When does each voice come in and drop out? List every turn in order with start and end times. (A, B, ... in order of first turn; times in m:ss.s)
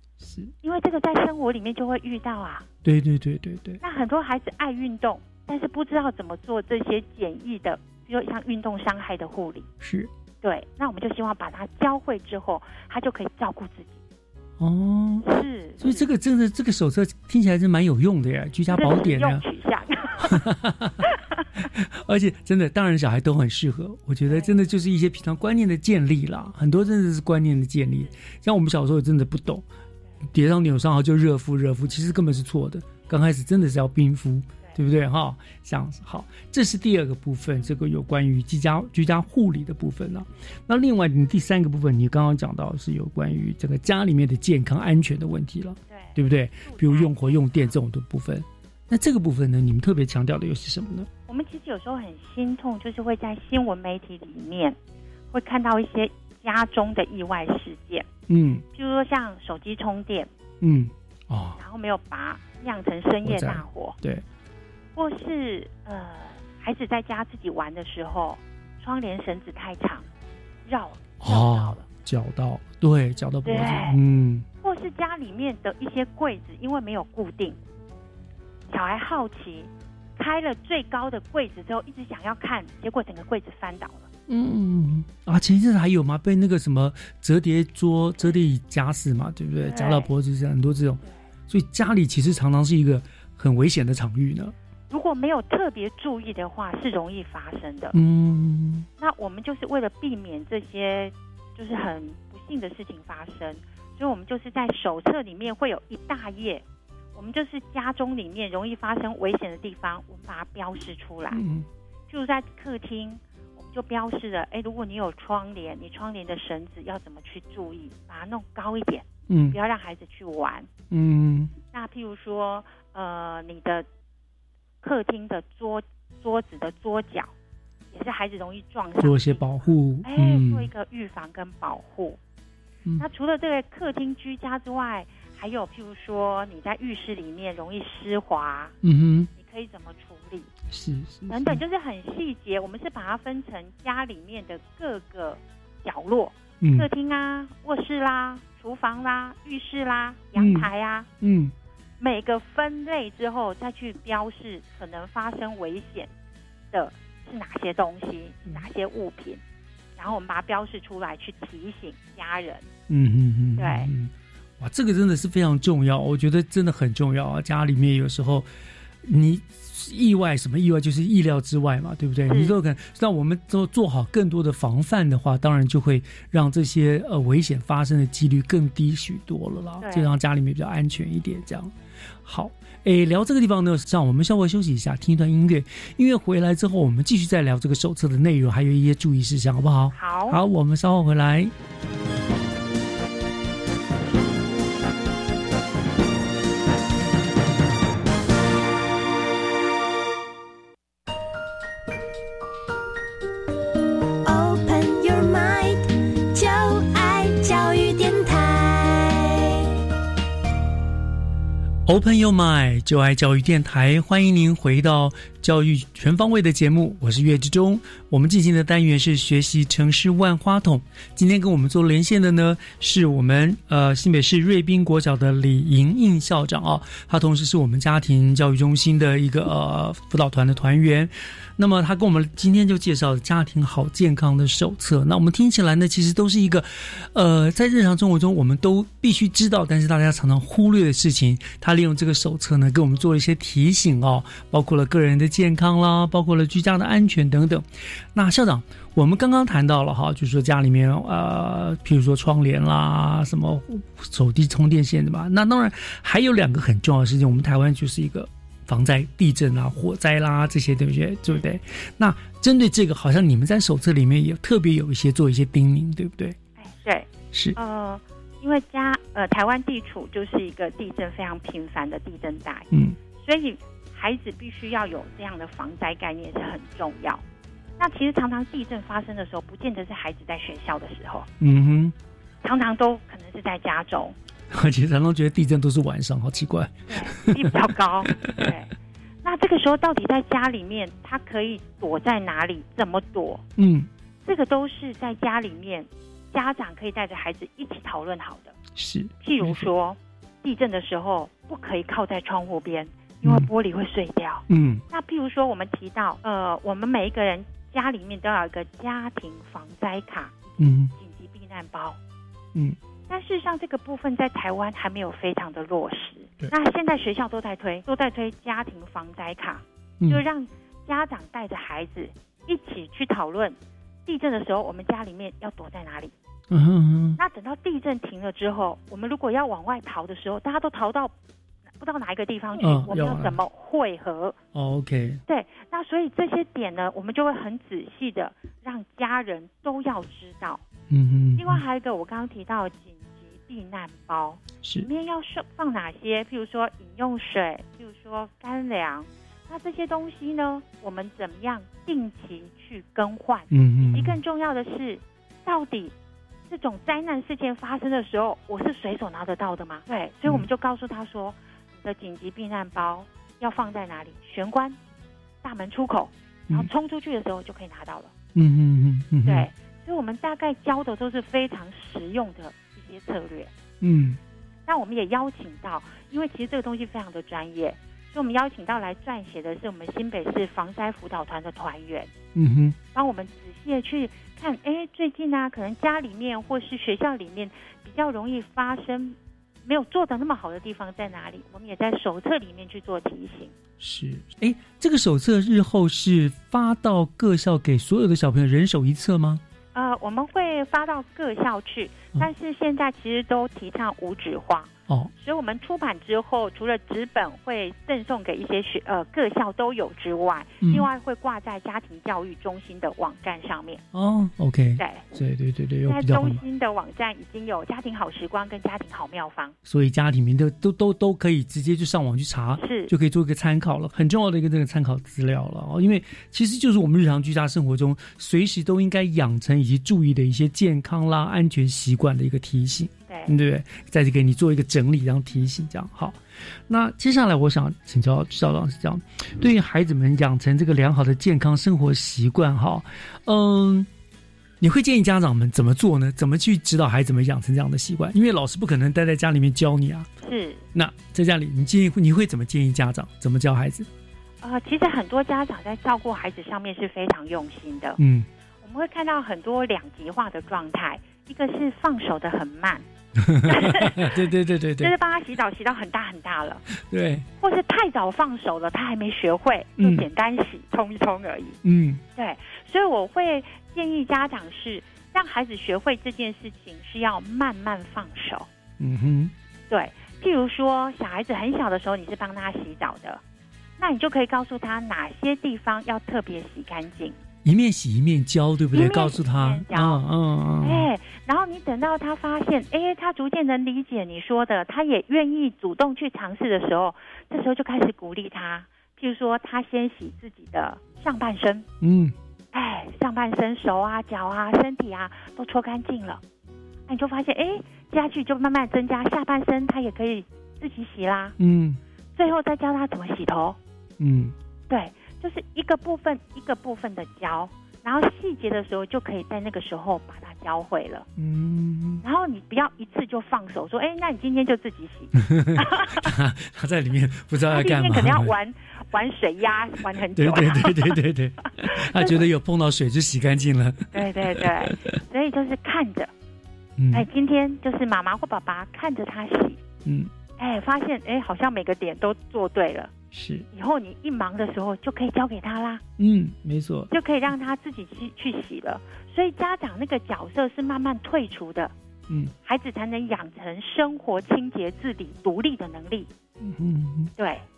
0:00.2-0:00.5 A
0:00.6-0:02.7 B
0:02.8-0:03.8 A
0:03.8-0:09.7 B
0:09.8-0:10.1 A
0:10.4-0:14.0 B
0:14.6-0:15.3 A
0:15.2-0:16.1 B
0:15.8-0:19.4 A
0:18.7-0:20.4 B
0:20.2-0:21.0 A
0:21.6-0:29.6 A
0:24.3-0:24.6 B
0:30.3-0:51.1 A
0:45.9-0:47.8 B
0:51.3-0:54.8 B
0:55.3-0:58.1 B
0:58.3-0:58.6 A
0:58.7-1:00.3 B
1:00.6-1:01.6 A
1:01.6-1:04.0 B
1:03.2-1:04.2 A
1:05.0-1:10.1 B
1:10.7-1:11.9 B
1:11.2-1:14.5 A
1:13.4-1:14.0 B
1:14.6-1:17.6 B
1:18.7-1:24.1 B
1:24.3-1:34.5 A
1:29.6-1:30.1 B
1:34.9-1:38.0 B
1:37.9-1:38.9 A
1:39.0-1:46.6 B
1:47.2-1:51.4 B
1:51.3-1:51.7 A
1:52.1-2:00.7 B
1:59.3-1:59.6 A
2:00.9-2:01.6 A
2:01.6-2:03.9 B
2:04.8-2:07.3 B
2:07.9-2:12.2 B
2:09.0-2:10.7 A
2:13.0-2:18.8 B
2:18.8-2:19.3 A
2:19.4-2:20.5 B
2:20.7-2:21.6 A
2:21.3-2:31.1 B
2:26.6-2:26.9 A
2:30.4-2:30.7 A
2:31.2-2:31.5 A
2:32.0-2:36.1 B
2:36.7-2:39.4 B
2:40.0-2:42.7 B
2:42.9-2:48.5 A
2:43.6-2:43.9 B
2:49.0-3:01.7 A
2:52.3-2:52.6 B
2:59.8-3:00.1 B
3:02.2-3:11.5 A
3:09.9-3:10.4 B
3:24.2-3:29.7 C
3:31.9-4:26.4 A
4:26.6-4:37.2 B
4:32.7-4:33.0 A
4:37.8-4:41.3 B
4:41.4-4:41.9 A
4:42.4-4:44.2 B
4:44.5-4:48.5 A
4:46.9-4:48.7 B
4:49.2-4:53.4 B
4:53.6-4:53.9 A
4:54.2-4:58.6 B
4:58.8-4:59.7 A
4:59.2-5:12.0 B
5:03.2-5:03.5 A
5:04.5-5:04.8 A
5:10.6-5:10.9 A
5:13.1-5:26.1 B
5:26.5-5:27.2 A
5:27.2-5:31.1 B
5:31.8-5:34.4 B
5:32.6-5:33.4 A
5:34.5-5:35.2 A
5:35.3-5:40.6 B
5:40.9-5:41.6 A
5:41.4-5:55.9 B
5:44.6-5:44.9 A
5:53.5-5:54.2 A
5:56.5-6:04.8 B
6:05.4-6:08.1 B
6:08.4-6:09.5 A
6:09.2-6:13.5 B
6:13.8-6:14.2 A
6:14.7-6:22.1 B
6:22.4-6:22.8 A
6:22.9-6:33.5 B
6:33.8-6:39.4 A
6:39.7-6:53.8 B
6:50.6-6:50.9 A
6:53.9-6:56.4 A
6:54.8-6:55.2 B
6:55.8-6:59.6 B
6:59.7-7:16.2 A
7:02.6-7:02.9 B
7:13.1-7:13.4 B
7:16.7-7:23.9 A
7:24.6-7:30.1 A
7:30.2-7:30.6 B
7:30.7-7:33.9 A
7:34.4-7:38.0 B
7:38.0-7:38.3 A
7:38.6-7:42.8 B
7:43.2-7:44.9 A
7:43.5-7:44.1 B
7:44.8-7:46.6 B
7:46.8-7:47.3 A
7:47.4-7:51.6 B
7:49.8-7:50.1 A
7:51.6-7:52.0 A
7:52.2-7:58.5 B
7:58.8-7:59.3 A
7:59.7-8:03.2 B
8:03.8-8:07.2 B
8:07.4-8:10.9 A
8:08.7-8:10.0 B
8:10.6-8:21.7 B
8:21.8-8:22.1 A
8:22.5-8:26.2 B
8:26.9-8:31.4 B
8:31.4-8:31.8 A
8:32.2-8:33.6 B
8:34.0-8:34.4 A
8:34.7-8:41.1 B
8:41.2-8:42.0 A
8:42.0-8:46.1 B
8:45.2-8:48.3 A
8:47.5-8:51.0 B
8:50.2-8:55.0 A
8:52.0-8:52.2 B
8:53.9-8:56.1 B
8:56.8-8:57.1 A
8:56.9-8:59.6 B
8:59.8-9:00.1 A
9:00.4-9:02.9 B
9:03.1-9:03.5 A
9:03.5-9:05.8 B
9:06.0-9:06.9 A
9:06.9-9:11.7 B
9:12.4-9:16.1 B
9:16.4-9:17.1 A
9:17.2-9:17.4 B